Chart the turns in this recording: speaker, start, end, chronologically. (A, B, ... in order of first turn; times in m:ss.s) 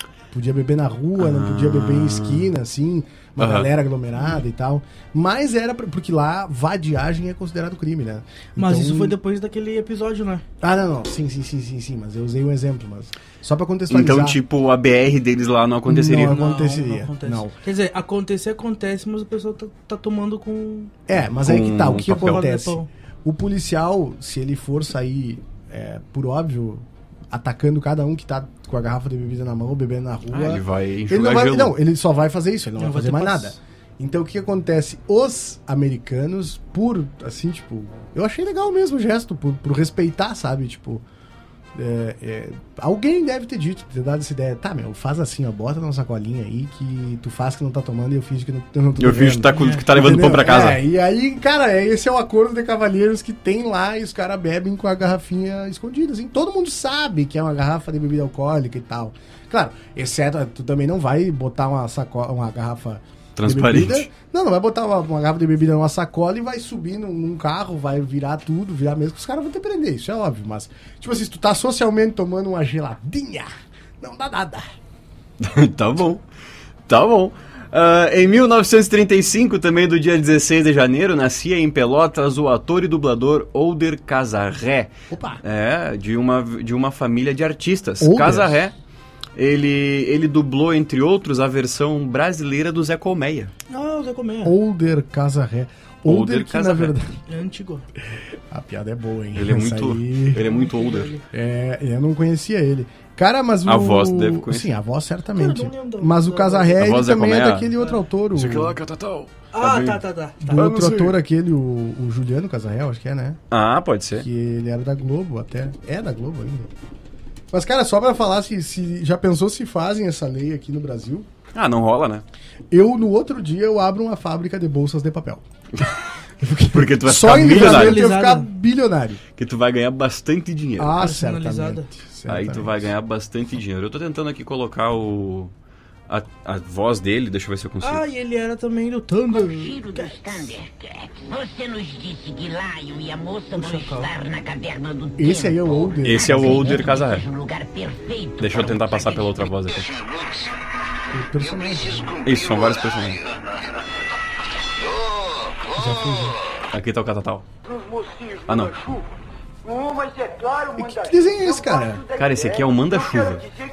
0:00.3-0:09.2 A
0:01.2-0:02.5 B
0:03.4-0:03.7 B
0:08.6-0:10.4 C
0:10.6-0:14.4 A
0:13.9-0:16.4 B
0:15.9-0:17.5 A
0:16.1-0:20.9 C
0:21.1-0:41.0 A
0:21.4-0:22.4 B
0:22.1-0:22.9 C
0:30.3-0:31.8 B
0:32.8-0:33.6 C
0:41.8-1:13.5 A
0:49.0-0:50.8 B
0:49.5-0:49.8 C
1:03.4-1:04.1 B
1:14.0-1:14.7 A
1:15.4-1:16.2 B
1:16.9-1:28.7 B
1:25.1-1:25.4 A
1:28.0-1:28.6 A
1:29.4-1:33.5 B
1:33.7-1:34.6 C
1:34.4-1:37.1 A
1:36.1-1:37.0 B
1:37.3-1:37.9 C
1:38.5-1:40.5 A
1:39.4-1:41.1 B
1:40.4-1:41.2 C
1:41.3-1:48.8 A
1:43.7-1:44.7 B
1:45.4-1:46.8 C
1:46.8-1:47.7 B
1:48.3-1:50.0 B
1:49.5-1:50.7 C
1:50.4-1:53.4 A
1:50.5-1:51.2 B
1:53.5-1:54.3 B
1:54.2-1:56.7 A
1:57.5-2:01.3 A
2:01.6-2:02.2 B
2:02.7-2:05.4 A
2:06.4-2:09.2 A
2:06.7-2:08.0 B
2:07.4-2:08.5 C
2:09.4-2:11.0 B
2:10.8-2:12.9 A
2:11.0-2:11.9 C
2:12.3-2:15.5 B
2:16.1-2:18.0 B
2:17.8-2:20.6 C
2:19.8-2:25.6 D
2:23.5-2:24.3 C
2:25.2-2:27.0 A
2:26.0-2:27.3 B
2:27.0-2:28.4 D
2:28.4-2:30.0 B
2:31.1-2:32.2 A
2:32.2-2:33.2 B
2:35.7-2:36.4 A
2:36.7-2:37.5 B
2:38.0-2:38.3 D
2:38.5-2:38.8 B
2:39.7-2:40.7 D
2:40.7-2:42.1 A
2:42.1-2:43.5 B